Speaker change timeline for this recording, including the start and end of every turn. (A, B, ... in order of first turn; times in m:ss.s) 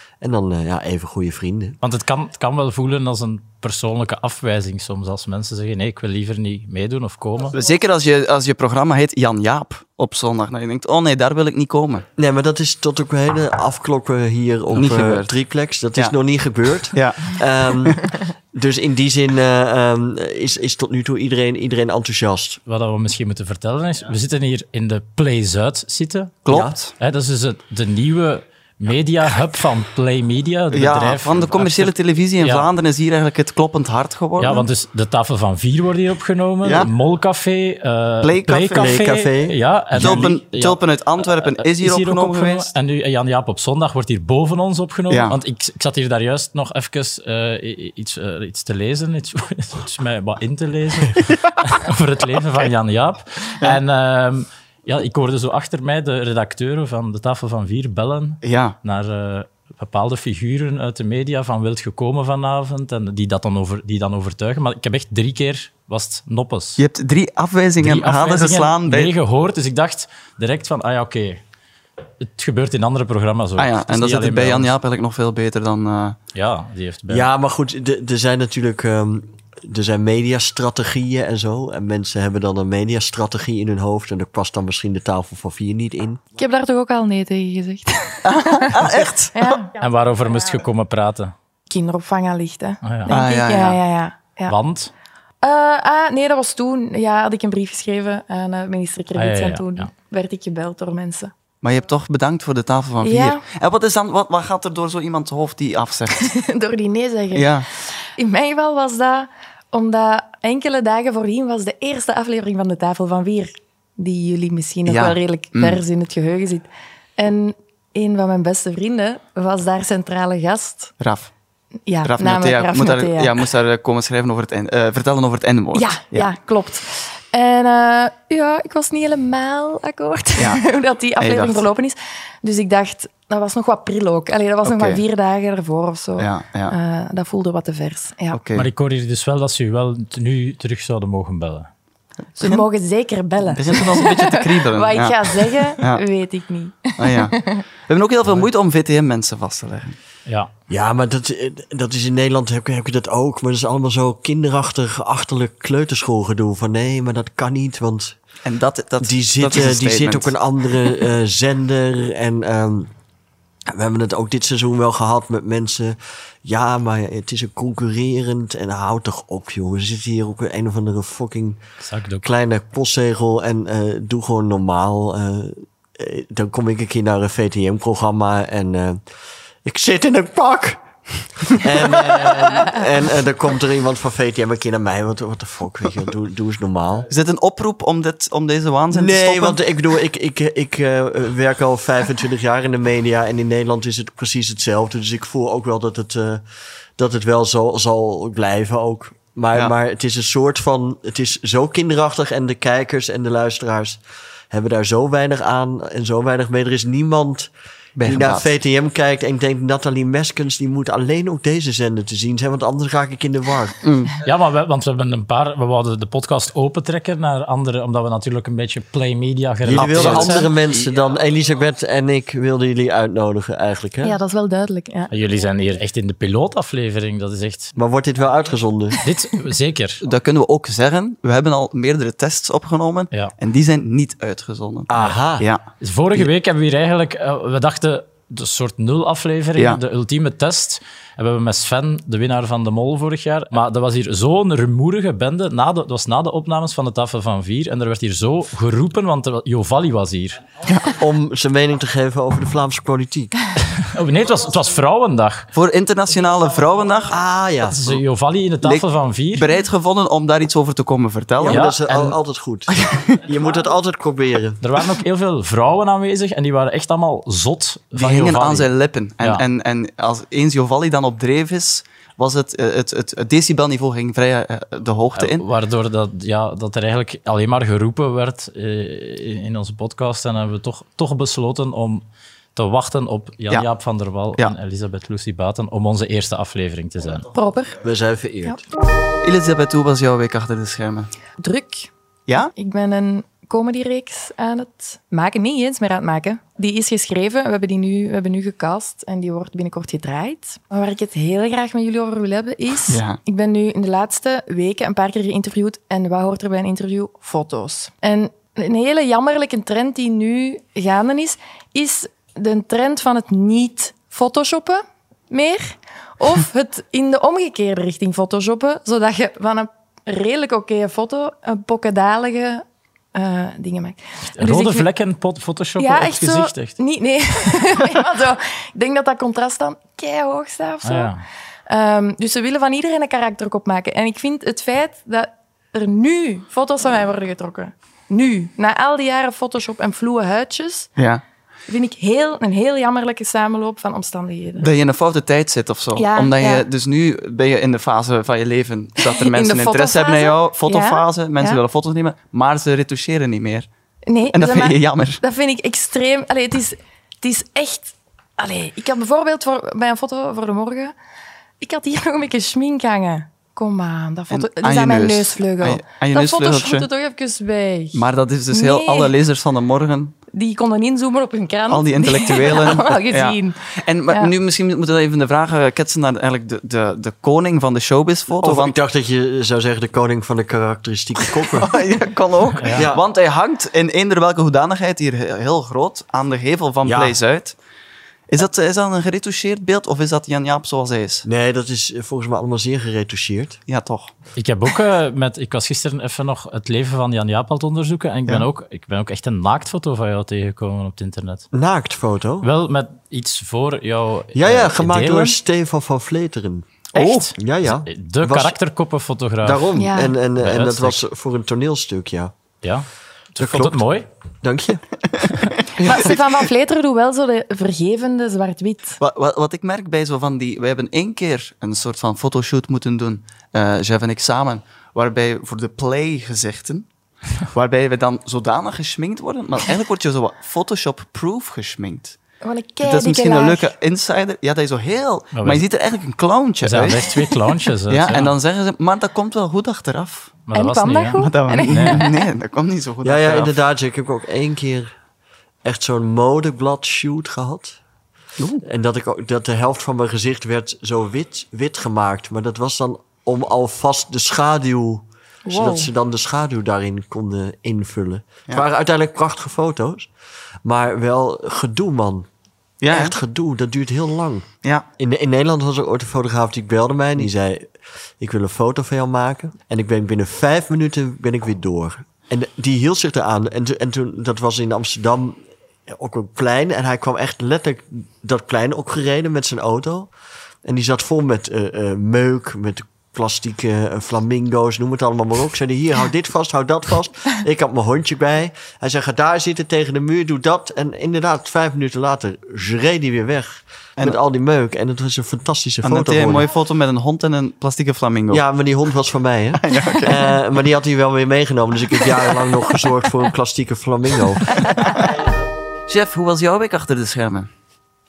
0:00.2-0:01.8 A
0:01.8-0:07.6 B
0:07.5-0:12.1 C
0:12.2-0:22.6 A
0:14.7-0:15.3 C
0:16.9-0:18.0 C
0:22.7-0:26.4 B
0:26.5-0:26.9 C
0:26.5-0:26.8 A
0:27.0-0:32.7 B
0:30.7-0:34.7 C
0:34.4-1:06.8 B
0:36.6-0:36.9 C
0:38.2-0:39.0 C
0:38.8-0:40.3 A
0:40.0-0:42.7 C
0:45.1-0:45.4 C
0:58.4-0:58.8 C
1:06.8-1:09.1 C
1:07.8-1:11.4 B
1:12.2-1:14.7 B
1:13.6-1:16.2 C
1:16.3-1:17.3 B
1:17.1-1:26.2 A
1:26.4-1:29.7 D
1:28.2-1:29.6 C
1:29.8-1:31.3 B
1:31.7-1:34.6 D
1:32.8-1:33.2 B
1:33.1-1:33.8 C
1:34.5-1:34.9 B
1:35.4-1:41.3 D
1:39.2-1:39.9 B
1:41.6-1:46.3 C
1:43.0-1:43.4 D
1:46.1-2:00.9 D
1:47.3-1:47.7 C
1:54.9-1:55.8 C
2:01.0-2:01.3 C
2:01.9-2:03.4 D
2:02.0-2:06.3 C
2:05.7-2:18.4 D
2:11.2-2:11.6 C
2:14.6-2:15.0 C
2:16.2-2:16.7 C
2:18.3-2:18.7 C
2:18.6-2:21.7 B
2:22.4-2:22.6 C
2:22.4-2:27.6 D
2:23.5-2:26.0 C
2:27.0-2:30.0 C
2:30.3-2:30.5 B
2:30.7-2:38.2 A
2:38.4-2:40.3 C
2:39.0-2:42.9 A
2:43.7-2:51.6 A
2:51.8-2:52.3 B
2:52.2-2:59.0 A
2:59.6-3:00.8 A
3:01.5-3:07.1 A
3:07.1-3:09.6 C
3:08.9-3:16.4 A
3:17.0-3:27.5 A
3:28.0-3:28.5 C
3:28.0-3:33.8 A
3:33.8-3:34.1 C
3:34.2-3:40.5 B
3:39.6-3:44.2 A
3:39.8-3:40.5 C
3:44.0-3:45.1 D
3:45.1-3:47.7 B
3:47.8-3:49.0 A
3:49.0-3:50.0 B
3:50.0-3:55.6 C
3:54.9-3:55.5 A
3:55.8-4:10.4 B
4:10.8-4:13.3 A
4:13.8-4:15.5 B
4:15.5-4:17.2 C
4:17.1-4:17.8 A
4:17.6-4:19.5 B
4:18.6-4:21.6 C
4:21.4-4:24.6 A
4:21.5-4:22.2 B
4:22.8-4:23.2 C
4:24.6-4:28.7 B
4:27.9-4:35.4 C
4:35.2-4:42.0 B
4:42.6-4:47.3 B
4:47.3-4:47.8 D
4:47.8-4:48.6 A
4:49.2-4:51.1 C
4:51.4-4:51.9 D
4:52.5-5:24.9 D
5:02.9-5:03.2 C
5:24.4-5:26.8 B
5:25.8-5:31.1 D
5:30.8-5:31.2 B
5:31.7-5:40.9 D
5:41.0-5:41.2 C
5:41.7-5:44.7 D
5:44.6-5:53.7 C
5:46.0-5:46.7 D
5:49.0-5:51.6 D
5:54.1-6:00.9 D
5:54.3-5:55.2 C
6:01.6-6:09.1 D
6:04.3-6:06.9 C
6:07.9-6:10.2 C
6:10.3-6:14.3 D
6:11.7-6:18.8 C
6:18.4-6:21.7 A
6:21.6-6:27.6 C
6:22.6-6:22.9 B
6:22.7-6:23.0 A
6:26.8-6:27.2 A
6:28.3-6:31.3 C
6:31.2-6:33.6 A
6:33.7-6:34.1 C
6:34.4-6:41.5 B
6:41.5-6:42.5 A
6:42.4-6:45.4 B
6:44.3-6:46.7 A
6:46.9-6:47.3 C
6:47.0-6:49.7 B
6:47.4-6:48.6 A
6:49.4-6:52.3 A
6:49.8-6:50.2 D
6:50.4-6:51.0 B
6:52.6-6:54.1 B
6:53.4-6:53.8 A
6:54.4-6:54.8 A
6:55.1-6:56.2 C
6:55.8-6:59.0 D
6:59.0-7:06.9 C
7:07.4-7:12.2 C
7:12.4-7:13.7 D
7:12.8-7:17.1 C
7:15.4-7:15.6 B
7:16.6-7:18.3 B
7:17.9-7:20.3 C
7:20.5-7:22.1 B
7:20.5-7:22.2 D
7:21.2-7:23.5 C
7:23.0-7:24.9 A
7:25.6-7:27.8 A
7:28.6-7:40.1 A
7:35.5-7:35.9 D
7:40.6-7:42.3 A
7:42.8-7:43.2 C
7:42.9-7:44.5 A
7:45.0-8:00.1 A
8:00.6-8:16.5 A
8:15.8-8:18.4 C
8:18.3-8:25.0 A
8:19.6-8:20.2 C
8:24.6-8:25.1 C
8:25.9-8:27.5 C